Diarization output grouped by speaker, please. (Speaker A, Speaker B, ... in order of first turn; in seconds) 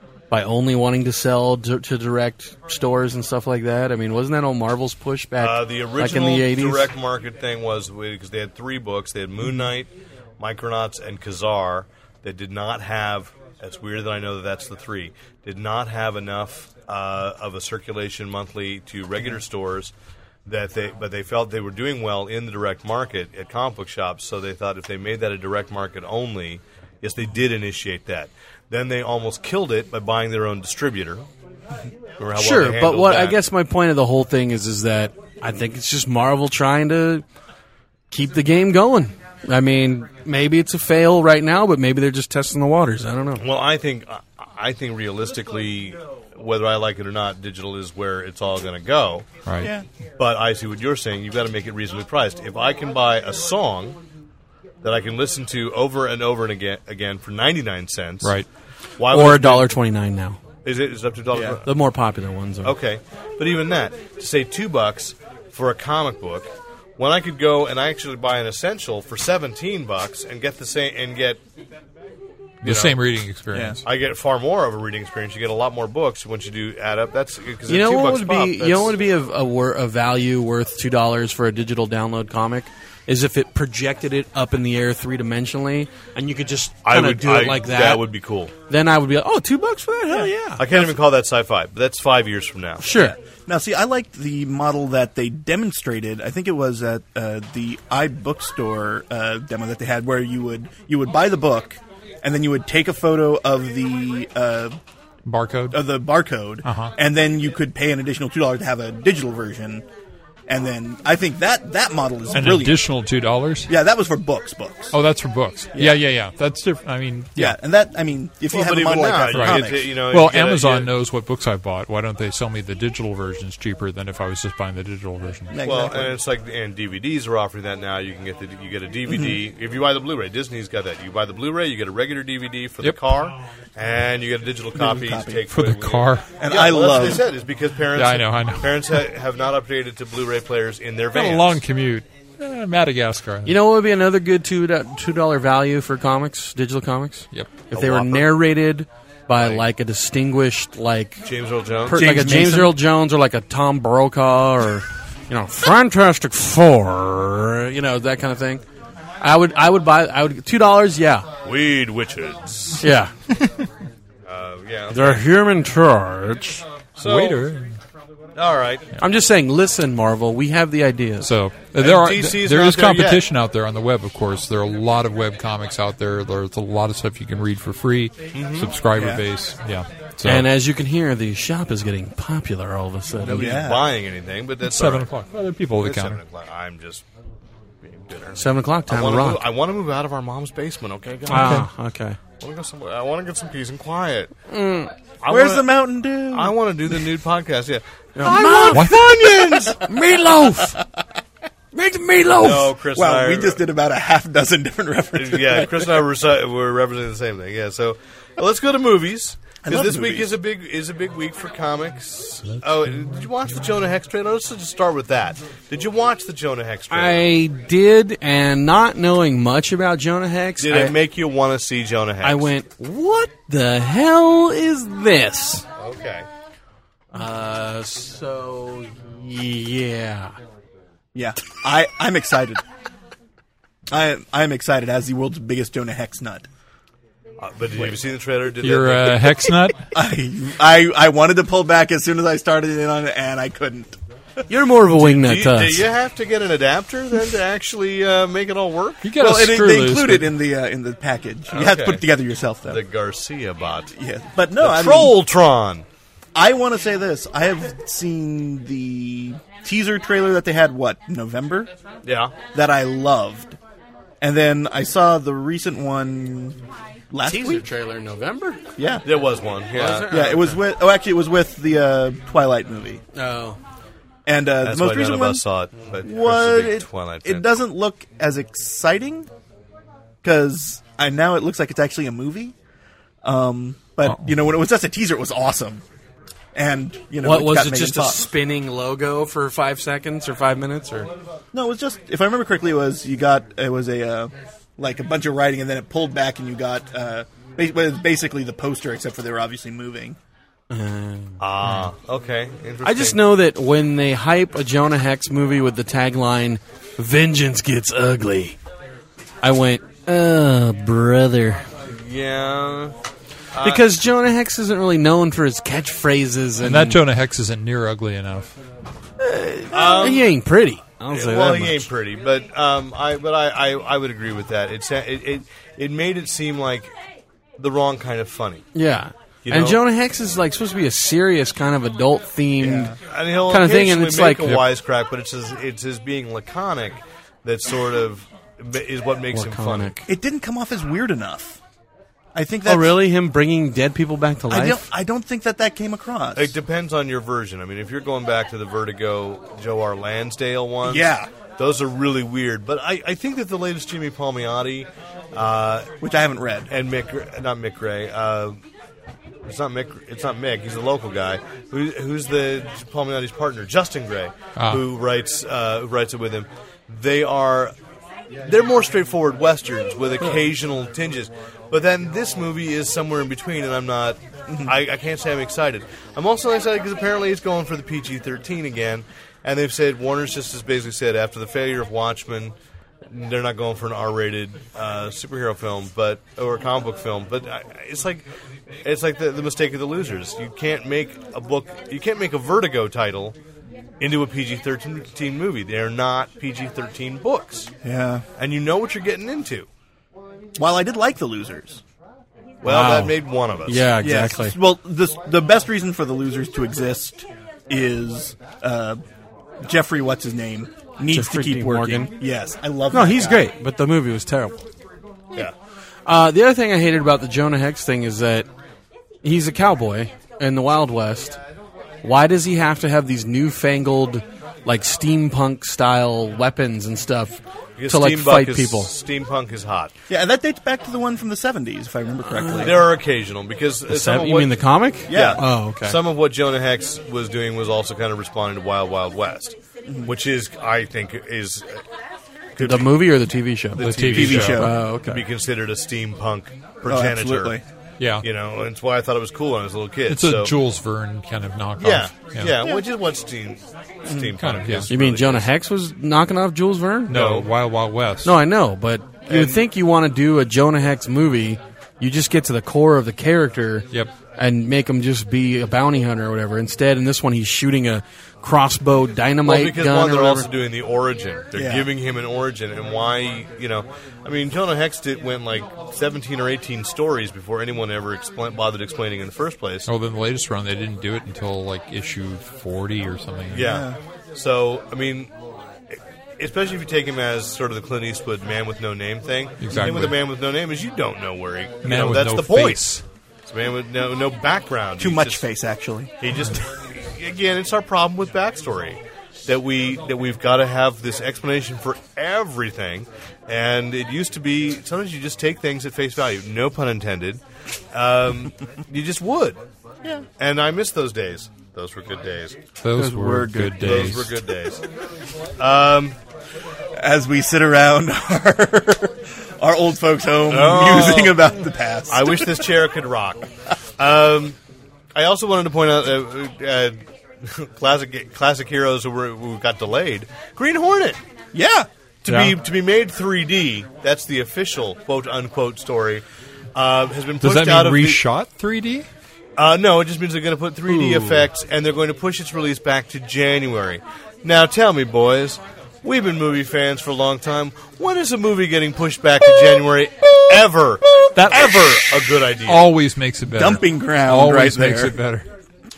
Speaker A: 0.3-6.9, 32.3-37.2, 38.1-43.5, 59.1-60.4, 61.6-62.8, 77.7-88.0, 88.7-90.6, 92.8-93.2, 143.4-151.3, 151.8-158.6, 159.2-161.3, 162.8-163.1, 164.9-166.6, 169.0-171.3, 180.2-183.6, 188.3-189.5, 191.3-192.2, 194.5-194.9, 198.2-199.0, 199.8-200.8, 201.7-202.8, 216.9-220.9, 222.2-225.6, 227.1-230.3, 244.5-245.9, 267.2-268.6, 269.7-270.6, 273.1-273.6, 287.2-291.1, 300.7-301.4, 302.8-308.6, 309.4-311.7, 313.6-317.0, 319.2-321.9, 328.7-334.6, 339.3-340.1, 342.6-344.8, 402.6-404.6, 411.1-412.1, 412.9-414.6, 416.1-418.5, 419.2-421.4, 422.0-428.9, 432.3-432.8, 433.9-436.0, 442.6-445.2, 454.9-457.2, 458.2-470.5, 512.9-514.1
Speaker B: 5.4-19.9, 20.4-31.2, 32.2-33.4, 43.4-49.3, 50.2-54.0, 54.8-58.3, 59.0-59.7, 60.6-61.7, 62.6-71.4, 72.6-73.0, 73.8-78.9, 86.8-88.5, 90.6-93.0, 118.5-120.9, 125.6-141.6, 147.7-148.3, 149.3-149.6, 151.2-152.0, 161.4-162.8, 164.2-165.2, 167.0-167.4, 168.3-168.9, 171.8-173.2, 178.3-178.7, 183.2-185.1, 185.8-187.0, 187.8-191.6, 192.4-194.3, 195.2-199.9, 202.4-203.6, 205.1-217.3, 220.6-222.5, 225.8-226.3, 237.4-239.5, 244.9-249.1, 251.5-252.0, 252.7-253.9, 254.6-255.8, 262.0-262.4, 269.0-270.4, 274.6-277.5, 301.4-303.2, 311.8-312.9, 313.5-313.8, 319.7-320.3, 321.1-326.9, 327.6-328.6, 329.4-329.8, 333.0-340.0, 346.3-355.9, 356.7-358.6, 359.4-367.7, 368.4-382.5, 383.1-388.3, 388.8-393.4, 394.0-397.7, 398.4-399.7, 402.6-404.0, 427.8-429.9, 432.6-441.8, 442.5-443.0, 443.8-447.6, 448.2-450.5, 451.8-455.4, 457.1-457.5, 459.3-459.6, 469.4-479.9, 483.5-485.3, 485.9-492.8, 493.4-495.4, 496.2-507.4, 507.9-509.6, 510.4-512.6, 513.8-514.8, 515.6-516.2, 520.4-521.5, 522.1-523.5, 524.0-524.6, 525.1-531.2, 532.2-536.2, 536.7-538.2, 539.6-552.9
Speaker C: 58.2-58.5, 72.6-73.8, 105.2-105.9, 106.6-106.9, 112.3-113.7, 114.9-117.6, 119.3-125.5, 135.5-136.3, 137.9-139.0, 141.1-143.6, 147.3-147.6, 167.0-167.8, 171.2-180.5, 184.6-186.2, 191.3-191.7, 198.7-199.1, 238.6-239.8, 249.0-250.3, 284.0-284.3, 316.6-318.6, 364.6-364.8, 443.7-444.7, 448.0-448.2, 450.1-452.6, 454.4-454.9, 457.1-458.3, 479.9-483.6, 489.6-490.2, 491.8-493.0, 512.8-514.3, 532.2-532.6, 537.4-539.1, 540.9-541.5, 551.3-551.9, 552.6-555.5
Speaker D: 73.5-73.8, 90.1-90.9, 93.0-104.8, 105.7-109.8, 110.5-112.9, 113.7-115.0, 115.7-116.0, 117.3-119.9, 125.5-126.2, 134.7-135.4, 136.4-137.3, 151.9-152.7, 178.9-179.2, 183.3-183.8, 195.3-196.6, 202.9-206.0, 209.6-210.3, 231.1-232.6, 233.9-236.5, 239.9-244.0, 249.2-252.8, 253.9-255.2, 256.3-261.7, 262.5-263.6, 264.2-266.6, 267.1-267.6, 268.8-269.0, 270.1-273.0, 274.2-275.4, 276.0-279.3, 280.2-282.5, 283.2-285.8, 286.5-288.3, 291.5-300.2, 332.6-333.0, 340.1-341.6, 342.3-342.9, 344.5-346.5, 350.8-351.3, 356.0-356.7, 397.8-398.2, 400.6-401.8, 404.0-409.0, 409.6-413.5, 430.1-432.9, 435.1-435.4, 439.9-440.1, 444.1-444.8, 446.9-447.6, 471.5-471.9, 483.6-484.0, 495.0-496.1, 517.0-522.7, 531.5-531.9, 553.5-555.2